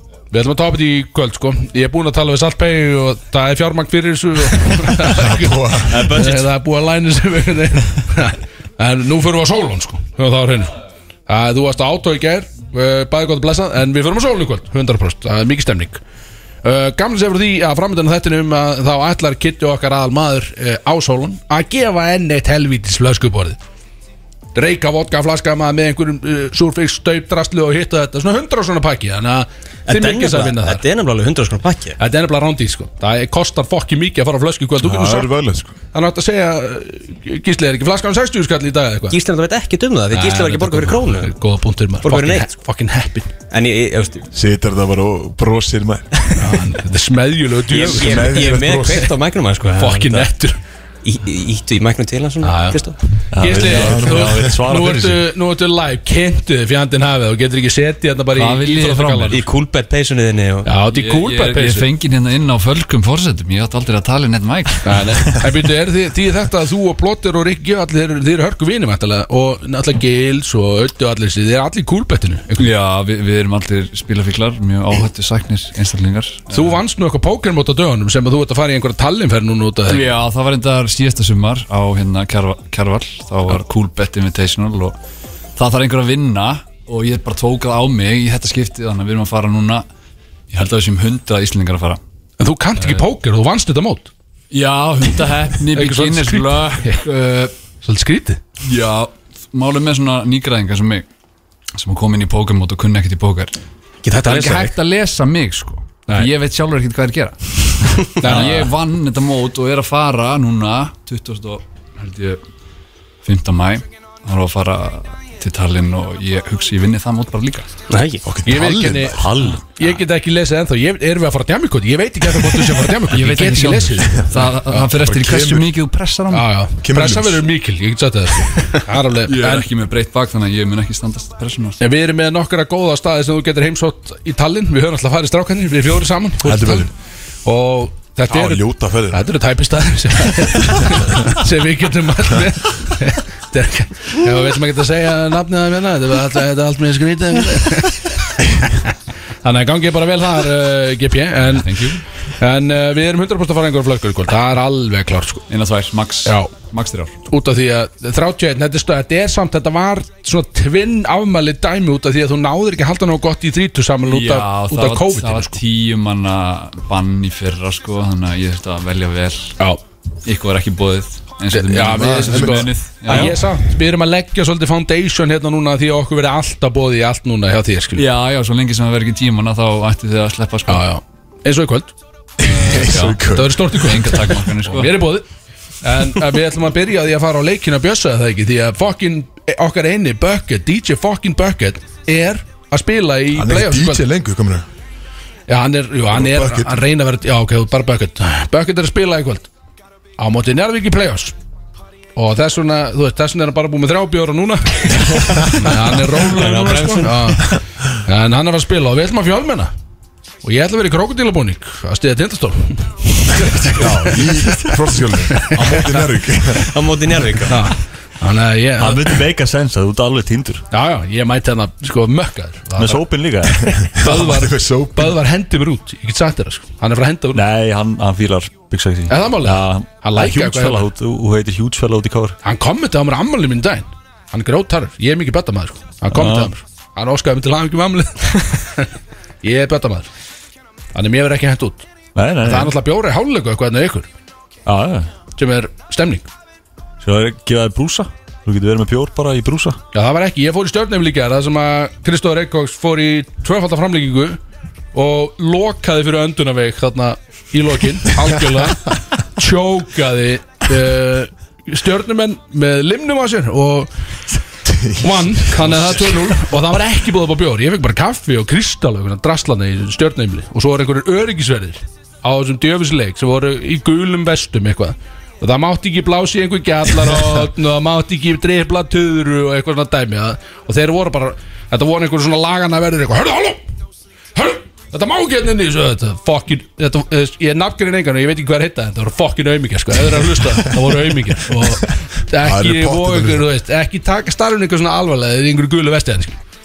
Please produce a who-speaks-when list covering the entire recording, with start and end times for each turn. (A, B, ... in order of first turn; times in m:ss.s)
0:00.3-0:10.7 A
0:05.1-0:06.1 B
0:05.9-0:06.5 C
0:11.3-0:16.0 A
0:16.6-0:23.6 A
0:24.6-0:30.8 A
0:29.9-0:32.0 C
0:32.0-0:35.3 A
0:34.8-0:35.8 B
0:35.9-0:39.2 A
0:39.1-0:41.3 C
0:40.1-0:43.3 A
0:42.0-0:42.5 C
0:43.5-0:44.3 C
0:44.3-0:46.1 B
0:46.4-0:48.8 A
0:47.7-0:50.3 C
0:47.7-0:49.1 B
0:49.8-0:50.6 A
0:51.0-0:53.0 C
0:52.4-0:52.8 A
0:53.3-0:55.2 D
0:53.4-0:59.4 A
0:53.4-0:54.8 B
0:58.4-0:59.4 E
0:59.3-1:00.7 C
1:00.6-1:01.9 A
1:00.9-1:05.7 E
1:04.8-1:12.7 A
1:12.6-1:16.8 E
1:16.5-1:20.1 A
1:19.9-1:25.0 E
1:25.6-1:29.9 E
1:30.5-1:32.0 E
1:32.4-1:34.1 A
1:34.5-1:37.5 E
1:35.7-1:37.1 A
1:37.8-1:38.4 A
1:38.6-1:41.0 E
1:41.8-1:43.5 E
1:44.0-1:44.7 C
1:44.2-1:52.4 E
1:48.2-1:48.7 A
1:53.2-1:57.7 E
1:57.9-1:58.2 C
1:58.2-1:59.3 B
1:58.4-2:04.2 A
1:59.1-1:59.6 D
2:03.1-2:06.5 E
2:04.2-2:05.7 B
2:06.3-2:09.7 A
2:06.8-2:07.4 B
2:09.2-2:11.8 E
2:11.8-2:16.9 A
2:16.4-2:16.9 B
2:17.4-2:31.8 A
2:18.3-2:19.2 B
2:31.5-2:32.0 E
2:32.4-2:35.5 A
2:35.5-2:37.1 E
2:36.2-2:36.5 A
2:37.3-2:45.6 A
2:44.1-2:49.6 E
2:50.2-2:53.6 E
2:51.5-2:58.1 A
2:51.7-2:52.7 B
2:58.0-3:00.9 E
3:00.7-3:01.9 A
3:02.4-3:03.7 B
3:02.4-3:05.0 E
3:03.3-3:05.3 A
3:05.8-3:14.0 A
3:13.4-3:14.7 B
3:15.5-3:19.5 A
3:16.1-3:16.8 B
3:20.2-3:21.4 A
3:22.2-3:27.5 A
3:26.2-3:27.5 C
3:28.0-3:29.7 A
3:30.4-3:34.8 A
3:33.7-3:36.7 B
3:35.3-3:36.0 A
3:36.7-3:37.6 C
3:37.5-3:39.2 A
3:38.8-3:40.6 D
3:40.7-3:43.1 A
3:42.8-3:43.7 D
3:43.8-3:45.2 B
3:44.0-3:47.4 A
3:47.3-3:52.4 D
3:49.1-3:50.9 A
3:52.4-3:58.9 A
3:56.1-3:56.5 D
3:59.4-4:00.1 A
4:00.9-4:01.9 A
4:02.2-4:02.7 D
4:02.4-4:04.1 A
4:04.7-4:05.1 D
4:05.4-4:06.3 A
4:07.0-4:09.8 D
4:09.9-4:14.4 A
4:14.9-4:23.9 A
4:24.6-4:26.4 B
4:25.0-4:43.6 A
4:44.4-4:56.4 A
4:52.4-4:53.5 B